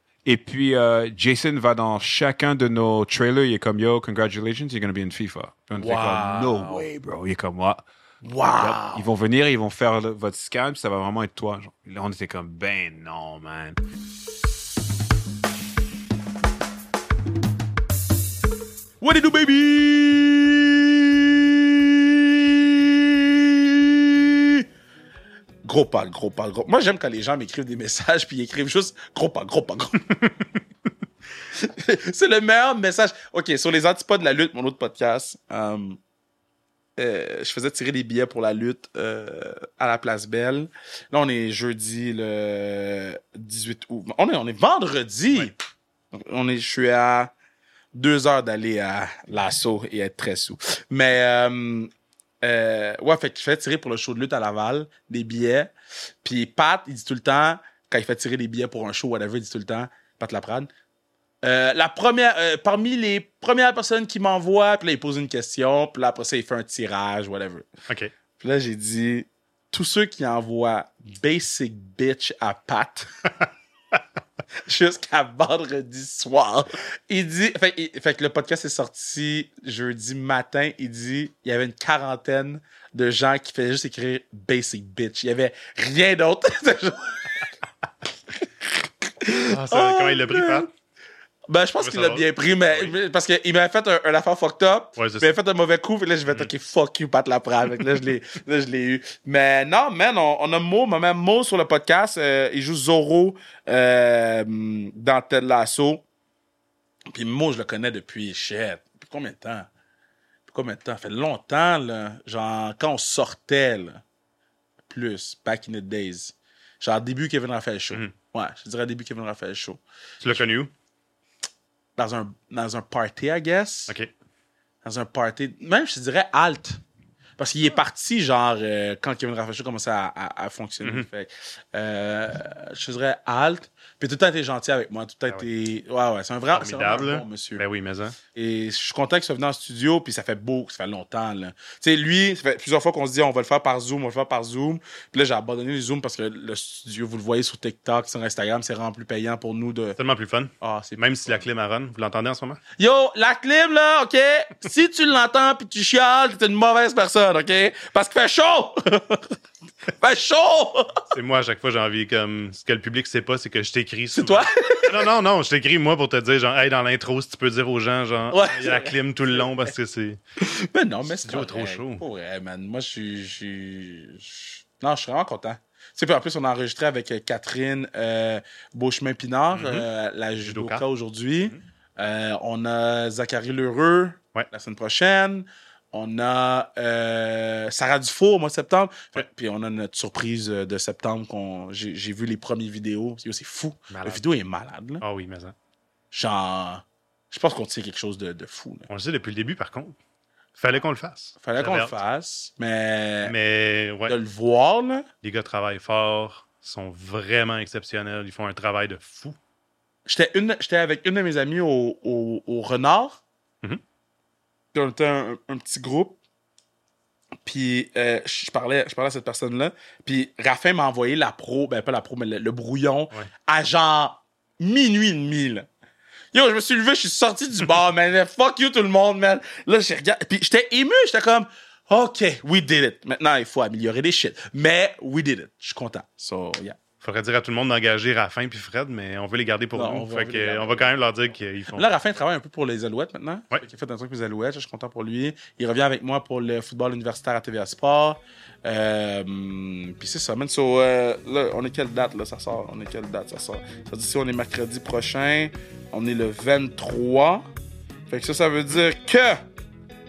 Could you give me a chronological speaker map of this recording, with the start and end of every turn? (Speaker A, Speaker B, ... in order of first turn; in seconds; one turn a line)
Speaker A: 0.2-7.8
Speaker B: 5.8-6.9
Speaker B: 8.2-9.0
Speaker A: 8.6-13.8
Speaker B: 19.0-24.6
Speaker B: 25.6-30.1
Speaker B: 31.5-36.0
Speaker B: 37.0-45.5
Speaker B: 46.1-47.3
Speaker B: 47.9-51.9
Speaker B: 52.4-55.7
Speaker B: 56.2-60.7
Speaker B: 61.4-67.7
Speaker B: 68.4-73.1
Speaker B: 74.6-87.5
Speaker B: 88.6-90.7
Speaker C: 89.5-90.7
Speaker B: 91.5-106.0
Speaker C: 91.8-92.9
Speaker C: 95.0-95.3
Speaker B: 107.1-109.7
Speaker B: 110.5-114.0
Speaker B: 114.9-120.4
Speaker C: 120.2-120.7
Speaker B: 122.0-123.9
Speaker B: 124.8-126.8
Speaker B: 127.4-137.6
Speaker C: 136.5-138.2
Speaker B: 138.3-150.0
Speaker C: 150.0-152.6
Speaker B: 150.6-151.4
Speaker B: 152.8-159.3
Speaker B: 160.0-161.0
Speaker C: 161.1-170.2
Speaker B: 164.1-165.1
Speaker B: 168.3-169.4
Speaker B: 170.4-195.0
Speaker C: 171.2-172.0
Speaker C: 179.5-179.9
Speaker C: 180.4-180.8
Speaker C: 193.9-194.2
Speaker C: 195.0-195.5
Speaker B: 196.1-198.9
Speaker C: 198.9-199.9
Speaker C: 200.6-202.0
Speaker B: 201.4-203.3
Speaker C: 203.2-204.2
Speaker B: 204.1-205.1
Speaker C: 205.2-209.4
Speaker B: 210.1-213.2
Speaker B: 214.7-216.2
Speaker B: 217.4-225.7
Speaker B: 226.3-236.8
Speaker C: 237.0-241.9
Speaker B: 239.7-240.9
Speaker B: 241.7-257.5
Speaker B: 258.1-259.4